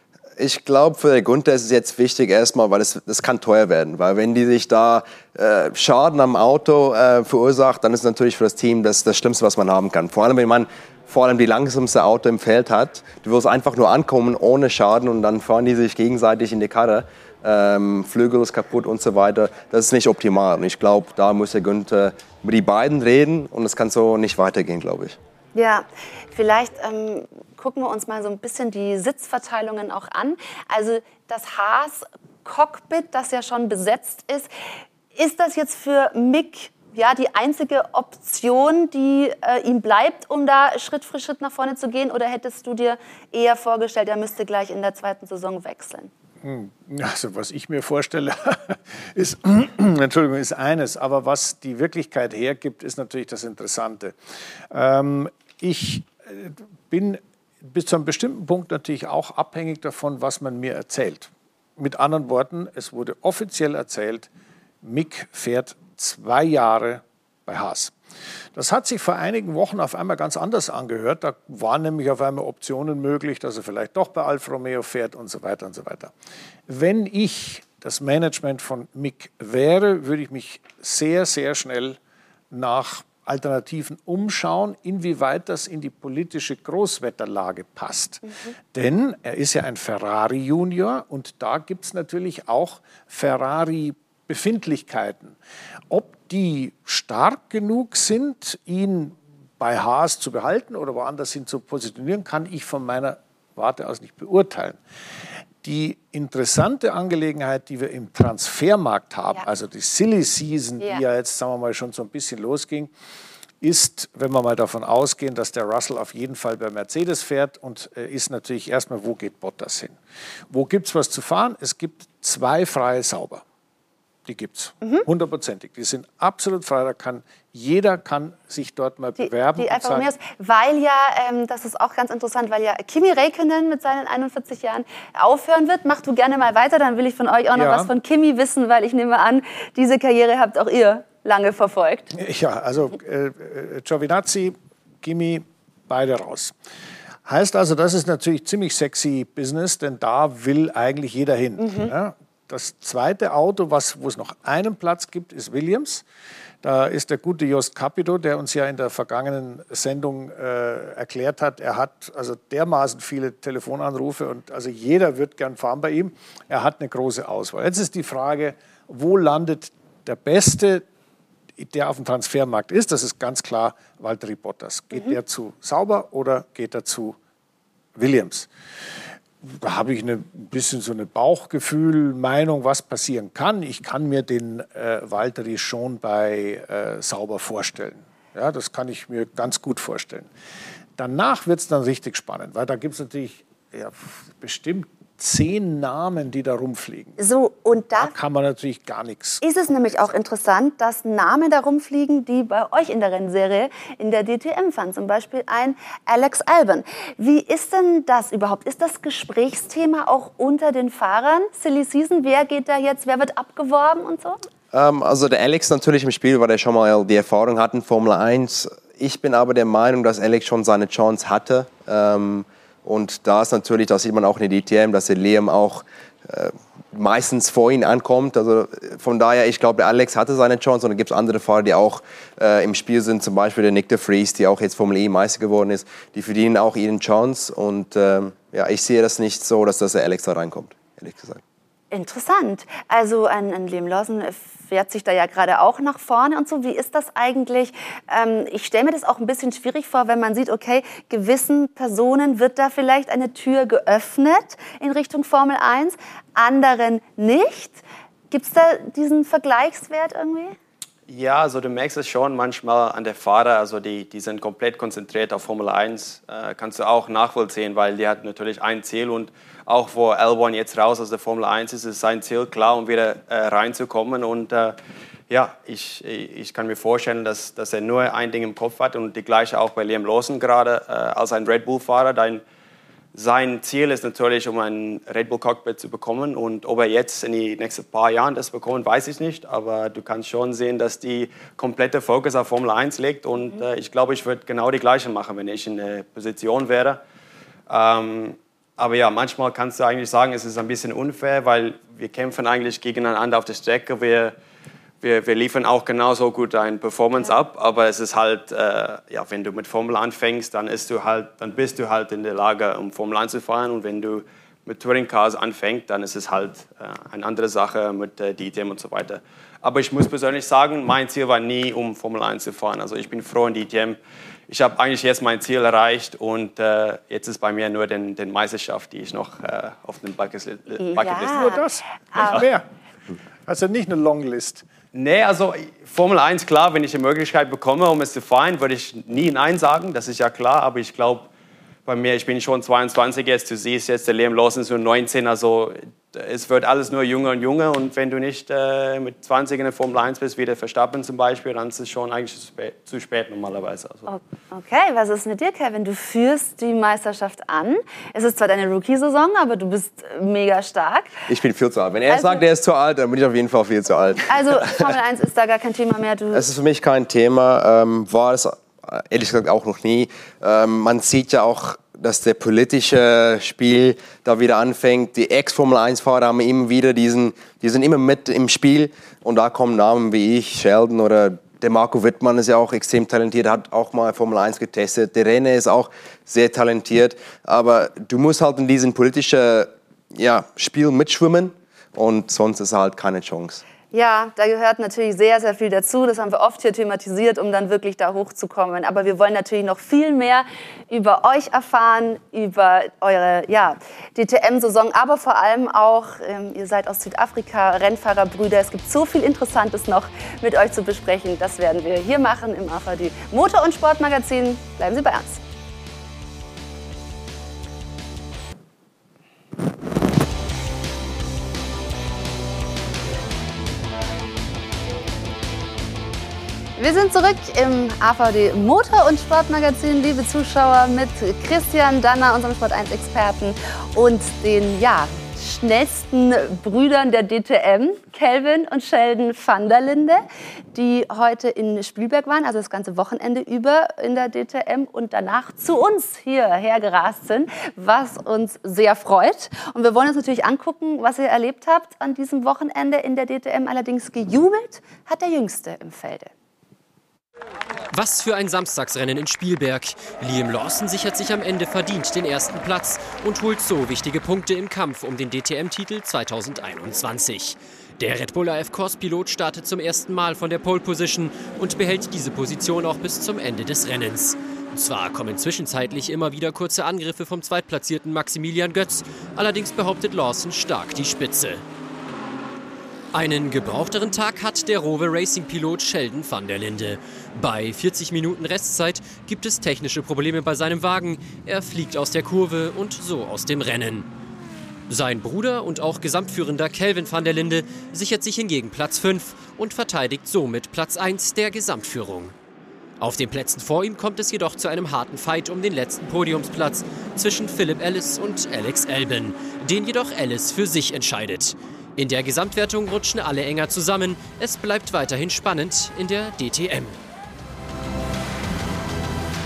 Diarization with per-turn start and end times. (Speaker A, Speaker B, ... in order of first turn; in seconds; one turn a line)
Speaker A: 0.4-25.2
Speaker B: 25.6-34.5
Speaker B: 35.1-46.1
Speaker C: 46.4-54.1
Speaker C: 54.7-64.3
Speaker C: 64.8-68.0
Speaker C: 68.5-76.1
Speaker C: 76.7-82.0
Speaker C: 82.5-95.4
Speaker B: 88.3-88.5
Speaker C: 95.9-104.8
Speaker C: 105.6-112.9
Speaker C: 113.6-120.0
Speaker C: 120.5-123.4
Speaker C: 124.3-130.1
Speaker B: 129.2-142.1
Speaker C: 137.6-137.9
Speaker C: 142.2-146.5
Speaker C: 147.3-156.0
Speaker B: 151.6-151.9
Speaker C: 156.6-170.8
Speaker C: 171.6-177.2
Speaker C: 178.0-178.5
Speaker C: 179.4-190.3
Speaker C: 191.0-197.2
Speaker B: 197.2-198.1
Speaker C: 197.9-199.4
Speaker B: 199.4-214.4
Speaker A: 214.7-241.4
Speaker B: 241.9-260.6
Speaker D: 261.1-274.8
Speaker D: 275.3-282.4
Speaker D: 283.1-297.0
Speaker D: 297.7-304.4
Speaker D: 305.0-324.0
Speaker D: 324.5-331.5
Speaker B: 330.8-331.6
Speaker C: 331.2-332.6
Speaker C: 333.5-334.6
Speaker D: 334.9-341.3
Speaker D: 341.9-354.1
Speaker B: 354.1-361.2
Speaker A: 361.3-364.8
Speaker B: 362.1-362.4
Speaker B: 364.3-366.4
Speaker A: 366.3-393.6
Speaker B: 393.9-415.4
Speaker B: 426.8-440.2
Speaker B: 440.7-456.3
Speaker E: 457.9-481.6
Speaker E: 483.1-494.1
Speaker E: 494.9-502.3
Speaker E: 503.0-517.0